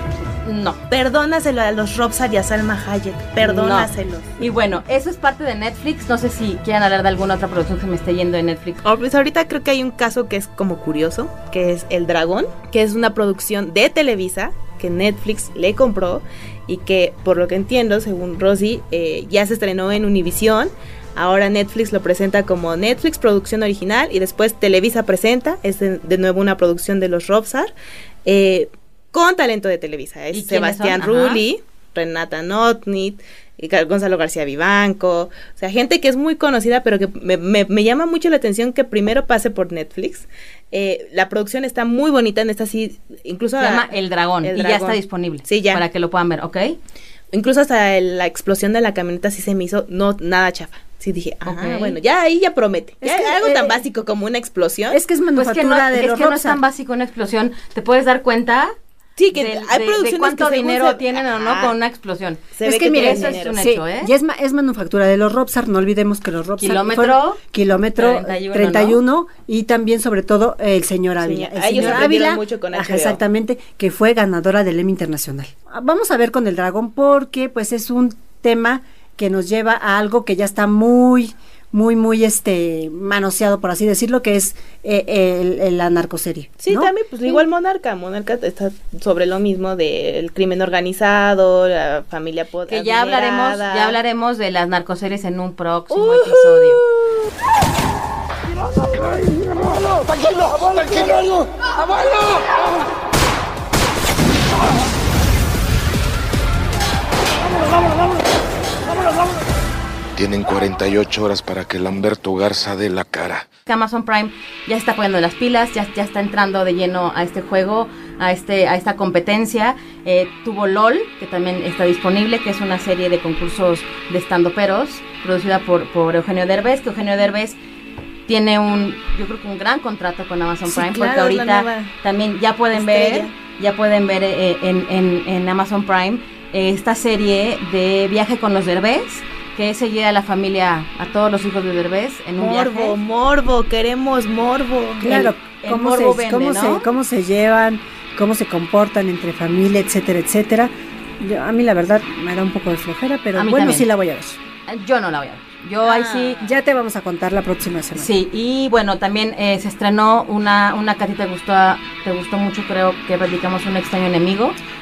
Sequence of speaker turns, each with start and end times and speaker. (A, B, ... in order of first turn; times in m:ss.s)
0:00.4-0:00.8 A
0:00.9-0:04.4 B
0:03.4-0:08.8 A
0:08.8-0:27.7 B
0:28.3-0:45.8 B
0:30.3-0:31.4 A
0:43.6-0:46.8 A
0:47.3-0:55.0 B
0:51.4-0:52.0 A
0:53.0-0:53.8 C
0:54.9-0:56.6 C
0:55.4-0:58.7 A
0:59.2-1:01.8 B
0:59.3-1:04.1 A
1:02.6-1:03.6 B
1:02.6-1:27.4 C
1:06.6-1:07.4 A
1:08.0-1:09.0 A
1:11.2-1:13.2 B
1:11.8-1:12.0 A
1:26.6-1:34.0 B
1:32.7-1:36.8 A
1:35.9-1:36.9 B
1:40.6-1:41.3 B
1:50.2-1:53.5 D
1:53.7-2:07.6 A
2:08.3-2:23.0 A
2:10.7-2:11.9 B
2:12.7-2:13.3 B
2:22.4-2:25.2 B
2:25.0-2:34.4 C
2:25.1-2:26.9 A
2:33.4-2:33.9 A
2:34.7-2:36.4 A
2:35.8-2:36.4 B
2:36.4-2:38.1 C
2:38.0-2:44.6 A